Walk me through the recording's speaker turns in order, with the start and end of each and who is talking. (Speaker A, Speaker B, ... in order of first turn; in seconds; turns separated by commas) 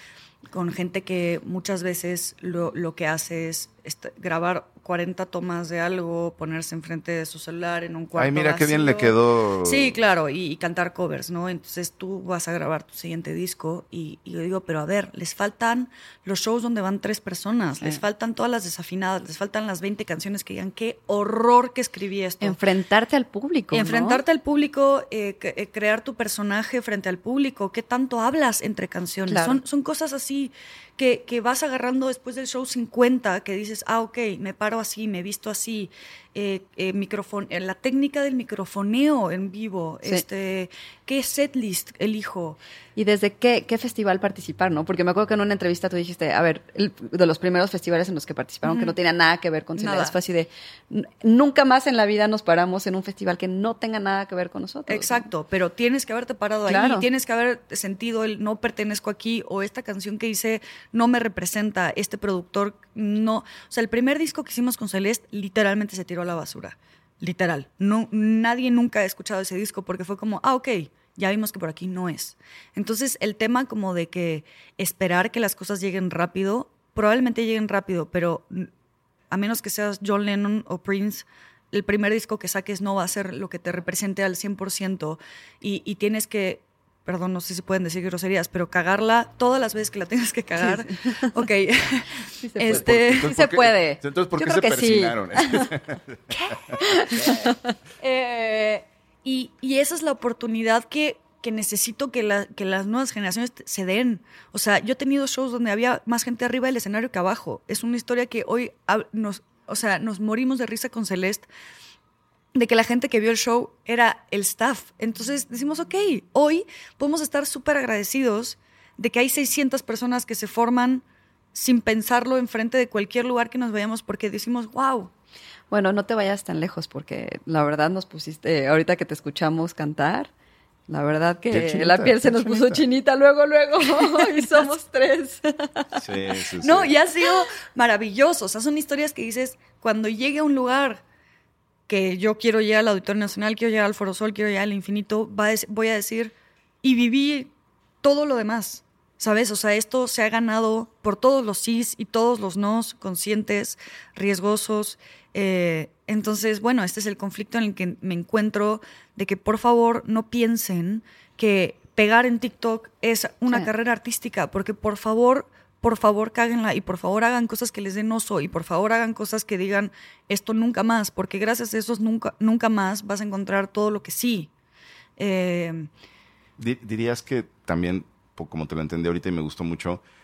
Speaker A: 0.5-22.6, Speaker B: 8.2-10.0, Speaker C: 22.4-24.2, Speaker A: 23.7-42.6, Speaker C: 29.3-29.6, Speaker C: 43.0-55.3, Speaker A: 48.6-49.0, Speaker A: 49.8-50.1, Speaker A: 54.9-78.7, Speaker C: 56.7-57.1, Speaker A: 79.3-93.3, Speaker C: 90.6-91.3, Speaker C: 92.3-95.7, Speaker B: 92.7-96.3, Speaker C: 96.3-97.6, Speaker A: 98.0-111.5, Speaker A: 112.5-121.0, Speaker A: 121.5-125.1, Speaker C: 125.7-130.3, Speaker C: 130.9-136.0, Speaker B: 131.5-132.8, Speaker A: 134.0-134.5, Speaker B: 135.9-136.9, Speaker A: 136.6-141.0, Speaker A: 141.9-147.5, Speaker A: 148.0-174.5, Speaker A: 175.2-175.9, Speaker B: 176.6-180.0